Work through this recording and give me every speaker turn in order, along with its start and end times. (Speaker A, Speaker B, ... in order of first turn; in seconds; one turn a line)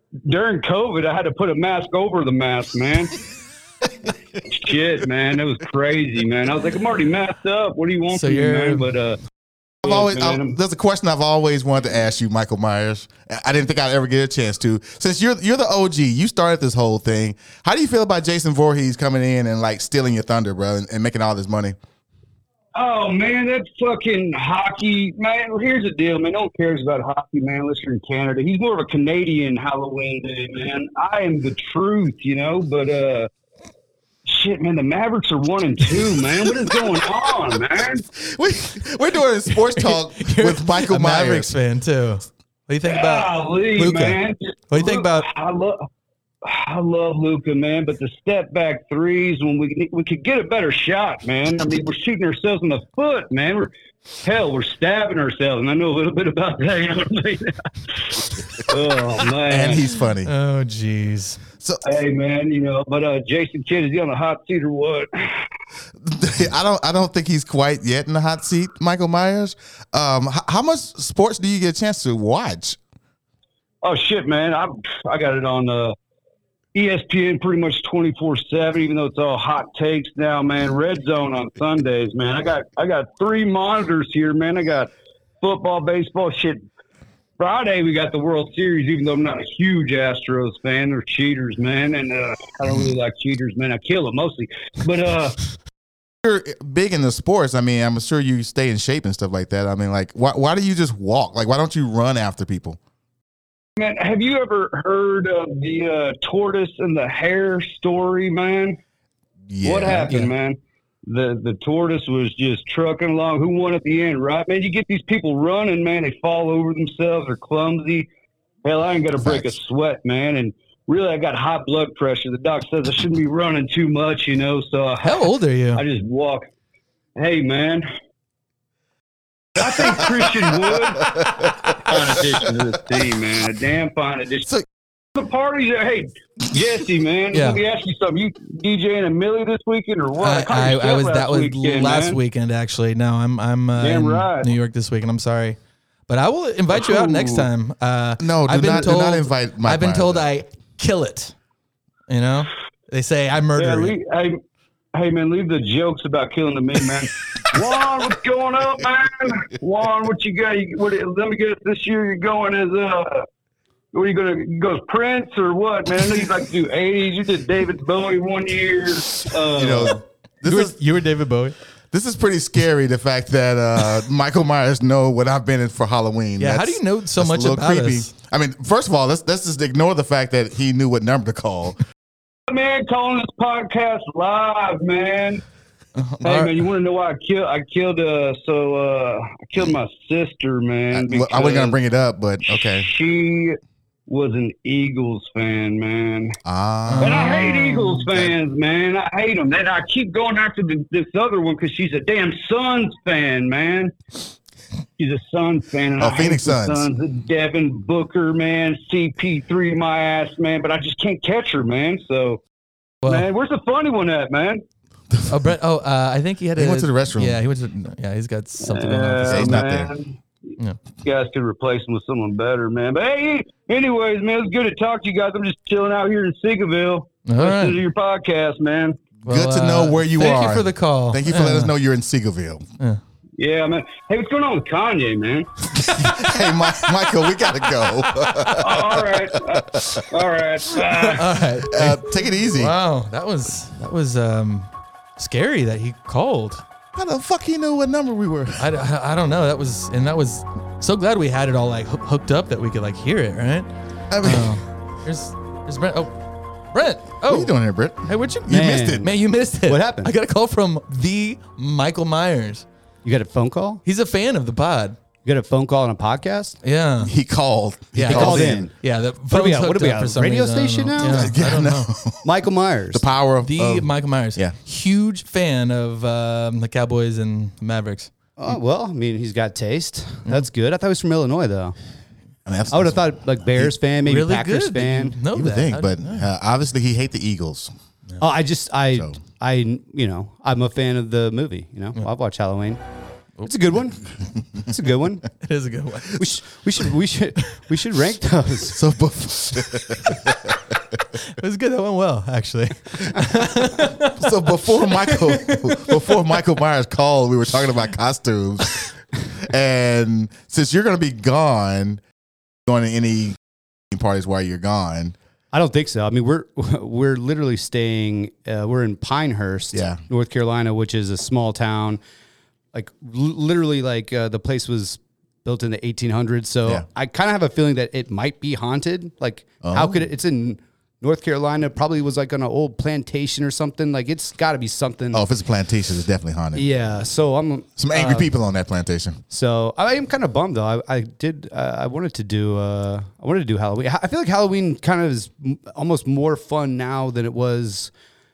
Speaker A: 0.2-3.2
Speaker A: 4.4-9.2
Speaker B: 8.1-8.9
Speaker C: 9.8-21.8
Speaker A: 9.8-10.6
Speaker A: 22.7-33.3
Speaker A: 34.2-38.0
Speaker C: 38.1-41.5
Speaker B: 39.5-45.3
Speaker A: 42.8-45.9
Speaker A: 46.4-53.7
Speaker A: 54.2-59.9
Speaker C: 59.4-60.3
Speaker B: 60.2-61.4
Speaker A: 61.8-65.5
Speaker C: 66.0-72.8
Speaker A: 73.8-76.0
Speaker A: 76.7-86.6
Speaker A: 87.4-95.4
Speaker C: 96.2-102.8
Speaker A: 103.8-108.8
Speaker C: 109.5-110.2
Speaker A: 109.6-118.1
Speaker A: 118.6-126.5
Speaker C: 119.2-119.5
Speaker B: 125.0-125.8
Speaker A: 127.2-127.8
Speaker A: 129.5-134.5
Speaker C: 131.1-131.9
Speaker A: 135.1-142.2
Speaker B: 137.3-137.6
Speaker B: 140.2-151.3
Speaker A: 143.8-144.5
Speaker A: 146.7-147.5
Speaker C: 148.2-150.3
Speaker B: 152.1-153.9
Speaker A: 153.6-154.4
Speaker A: 154.9-163.2
Speaker A: 163.9-170.0
Speaker C: 169.5-170.7
Speaker B: 170.4-171.5
Speaker C: 171.9-181.8
Speaker B: 176.4-178.1
Speaker A: 182.5-185.4
Speaker B: 185.9-186.6
Speaker A: 186.2-191.8
Speaker C: 190.9-192.9
Speaker A: 192.7-196.4
Speaker C: 196.4-197.4
Speaker B: 196.9-198.1
Speaker A: 197.0-203.9
Speaker A: 205.0-212.4
Speaker C: 206.0-206.9
Speaker B: 213.0-213.3
Speaker A: 213.0-214.6
Speaker B: 215.3-219.6
Speaker C: 216.6-217.4
Speaker A: 218.6-220.2
Speaker C: 219.2-219.9
Speaker A: 221.0-229.0
Speaker B: 227.2-227.8
Speaker C: 229.2-232.7
Speaker B: 229.2-231.7
Speaker A: 233.4-235.6
Speaker C: 235.8-240.0
Speaker A: 238.4-241.4
Speaker B: 240.9-246.6
Speaker C: 241.7-242.7
Speaker C: 246.9-248.6
Speaker B: 248.6-253.7
Speaker C: 254.1-254.6
Speaker B: 254.2-257.5
Speaker C: 257.3-259.1
Speaker B: 258.1-262.6
Speaker D: 258.5-260.1
Speaker D: 263.0-263.8
Speaker B: 263.9-265.0
Speaker D: 265.2-266.6
Speaker B: 266.6-267.1
Speaker C: 267.0-268.6
Speaker B: 267.9-271.9
Speaker D: 268.0-268.7
Speaker D: 269.3-271.4
Speaker C: 271.0-272.2
Speaker D: 272.2-273.0
Speaker C: 272.9-274.6
Speaker B: 273.4-278.1
Speaker D: 278.4-281.7
Speaker C: 282.4-283.7
Speaker D: 282.7-285.2
Speaker B: 284.0-286.2
Speaker C: 285.3-287.7
Speaker D: 288.2-292.8
Speaker D: 293.4-294.0
Speaker D: 294.5-295.3
Speaker B: 295.4-296.3
Speaker D: 296.2-298.8
Speaker C: 298.7-300.6
Speaker B: 301.2-306.2
Speaker C: 304.1-308.9
Speaker C: 309.4-312.0
Speaker C: 312.7-313.4
Speaker C: 313.9-315.1
Speaker D: 315.5-322.0
Speaker C: 319.7-320.0
Speaker D: 322.7-335.2
Speaker C: 329.6-330.0
Speaker C: 335.1-336.6
Speaker D: 336.5-338.3
Speaker C: 337.8-339.2
Speaker D: 339.3-347.9